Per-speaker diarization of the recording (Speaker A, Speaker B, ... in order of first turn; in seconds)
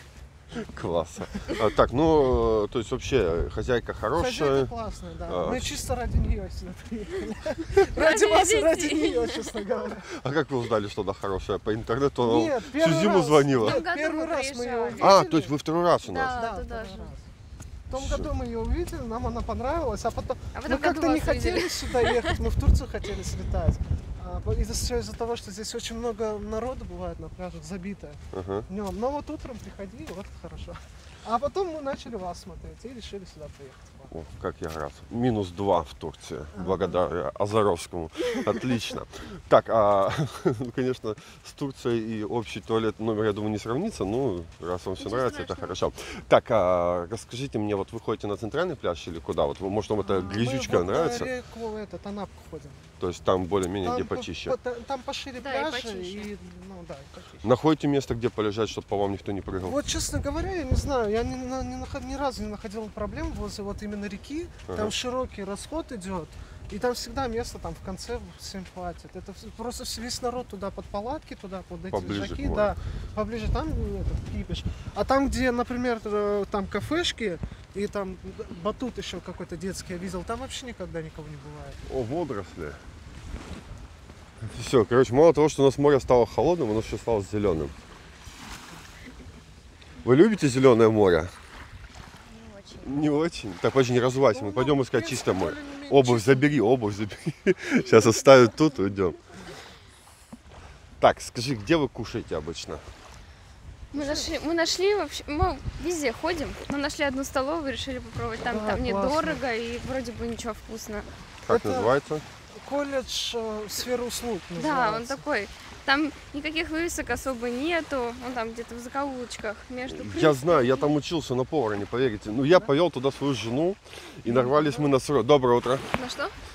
Speaker A: 0.6-4.7, 5.3-5.8, 10.0-13.8, 15.0-16.3, 17.9-18.3, 28.3-28.6, 34.1-51.3, 53.0-54.5, 57.4-59.8, 64.7-64.9, 71.9-72.7, 81.8-82.8, 84.4-87.7, 90.0-91.3, 92.8-99.2, 101.0-102.8, 111.4-112.2, 119.9-125.9
Speaker B: 4.1-10.0, 12.2-15.5, 16.3-17.3, 17.9-34.1, 36.5-37.0, 50.0-52.9, 53.8-57.5, 59.6-81.8, 94.3-96.5, 103.9-104.3, 108.5-109.4, 111.5-111.9, 112.6-115.2, 124.2-124.9
Speaker C: 7.8-9.5, 13.6-15.1, 16.0-17.1, 20.5-22.4, 45.0-45.8, 55.4-56.3, 92.2-93.1, 103.9-111.1, 114.5-121.0, 125.9-126.3